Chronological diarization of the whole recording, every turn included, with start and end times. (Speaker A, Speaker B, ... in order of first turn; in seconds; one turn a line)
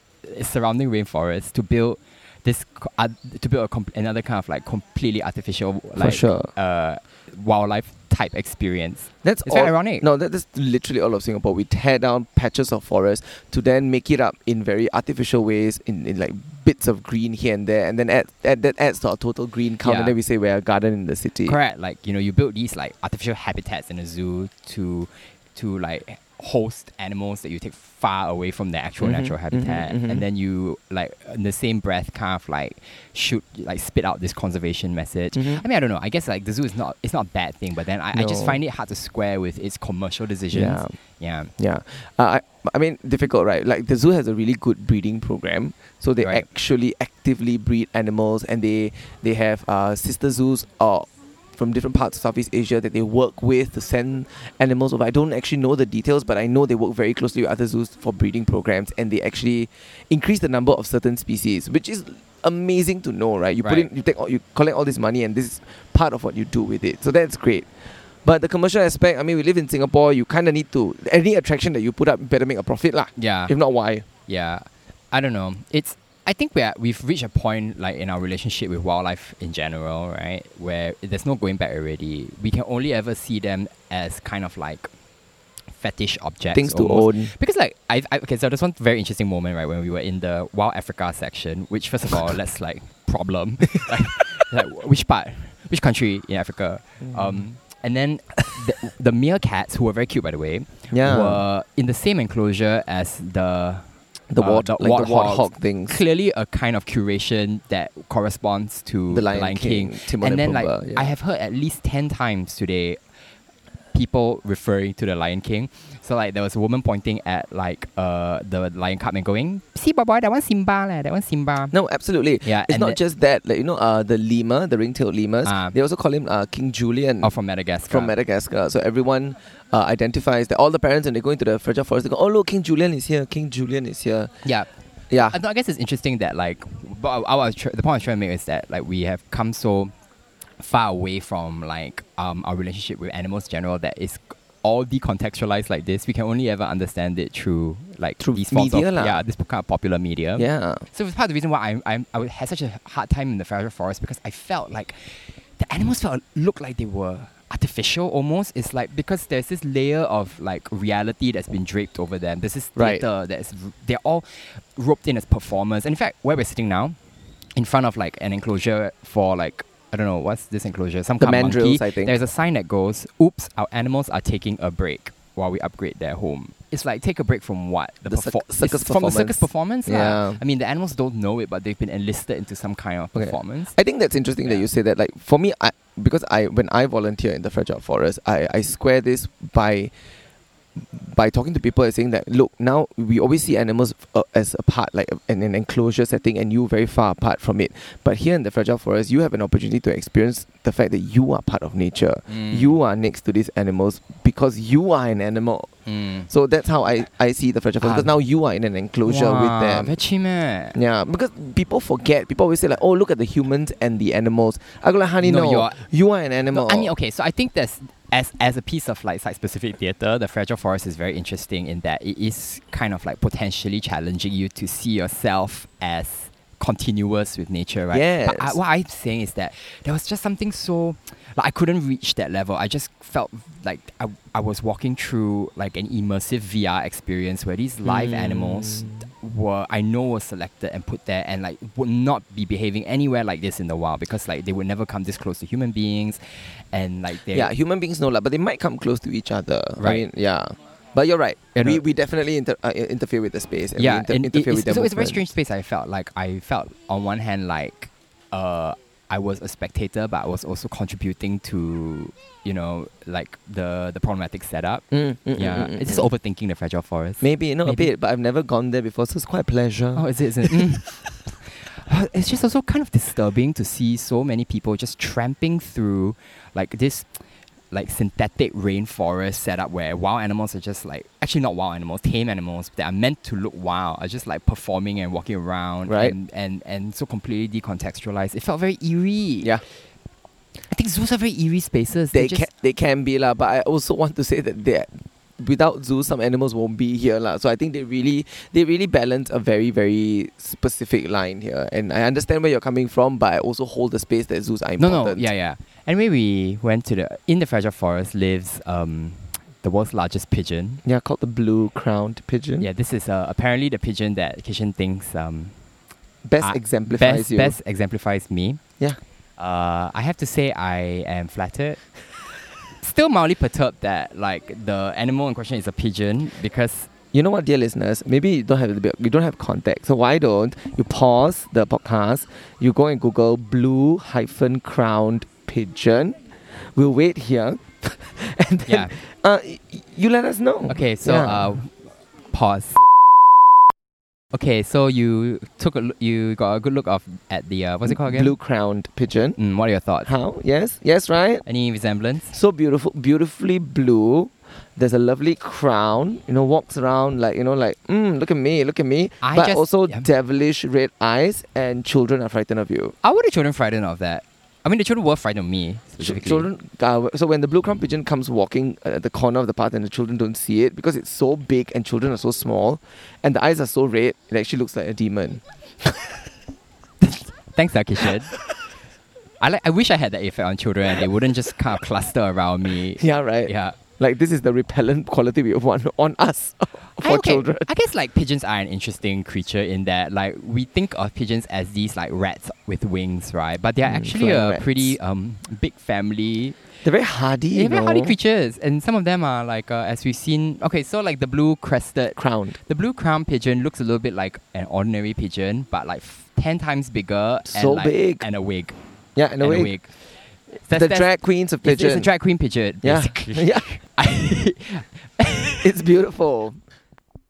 Speaker A: 0.2-10.1
Speaker B: 6.0-6.5
Speaker B: 9.2-21.6
Speaker A: 19.8-20.1
Speaker A: 21.4-41.5
Speaker B: 29.0-30.2
Speaker B: 35.3-35.6
Speaker B: 38.1-38.6
Speaker B: 40.5-41.0
Speaker B: 41.6-74.1
Speaker A: 63.6-63.9
Speaker A: 73.2-73.5
Speaker A: 74.3-84.9
Speaker A: 85.8-113.0
Speaker B: 86.5-87.3
Speaker B: 97.1-97.4
Speaker B: 100.9-101.4
Speaker B: 104.3-106.0
Speaker B: 109.1-111.1
Speaker A: 113.9-121.7
Speaker B: 121.7-127.3
Speaker A: 122.4-123.0
Speaker A: 125.4-125.8
Speaker A: 127.2-128.1
Speaker B: 127.9-134.3
Speaker A: 134.4-139.9
Speaker B: 135.1-135.4
Speaker A: 140.6-167.0
Speaker B: 148.2-149.2
Speaker B: 150.4-150.8
Speaker B: 162.8-163.0
Speaker A: 167.5-183.8
Speaker B: 171.2-172.1
Speaker B: 178.0-180.4
Speaker B: 183.1-189.9
Speaker B: 190.8-205.7
Speaker A: 202.3-202.7
Speaker A: 205.8-206.3
Speaker B: 206.3-209.9
Speaker A: 207.8-208.1
Speaker A: 209.0-210.8
Speaker B: 210.7-216.9
Speaker A: 215.2-215.8
Speaker A: 216.5-247.5
Speaker B: 227.9-228.6
Speaker B: 237.8-239.0
Speaker B: 247.3-255.2
Speaker A: 249.8-250.0
Speaker A: 251.5-251.8
Speaker A: 253.8-267.9
Speaker B: 264.9-266.1
Speaker B: 267.2-271.1
Speaker A: 269.9-289.6
Speaker B: 285.9-286.1
Speaker A: 290.7-292.5
Speaker B: 292.1-305.3
Speaker A: 304.8-310.8
Speaker B: 310.8-312.7
Speaker A: 312.6-315.6
Speaker B: 316.2-317.6
Speaker A: 316.4-318.6
Speaker A: 319.4-321.8
Speaker A: 322.8-326.9
Speaker B: 327.1-341.6
Speaker A: 338.7-338.9
Speaker A: 340.7-342.8
Speaker A: 344.3-348.4
Speaker B: 347.9-349.4
Speaker A: 349.4-350.1
Speaker B: 350.0-351.4
Speaker A: 351.4-352.4
Speaker B: 352.3-362.9
Speaker A: 359.2-360.1
Speaker A: 363.0-366.5
Speaker B: 366.0-376.1
Speaker A: 377.0-378.3
Speaker A: 379.4-383.8
Speaker B: 383.0-387.7
Speaker A: 387.0-396.6
Speaker B: 393.8-394.9
Speaker B: 396.8-398.1
Speaker A: 397.5-408.8
Speaker B: 402.2-402.6
Speaker B: 407.5-408.2
Speaker B: 409.1-409.7
Speaker A: 409.4-415.6
Speaker B: 410.7-412.1
Speaker B: 412.8-413.8
Speaker B: 415.6-416.6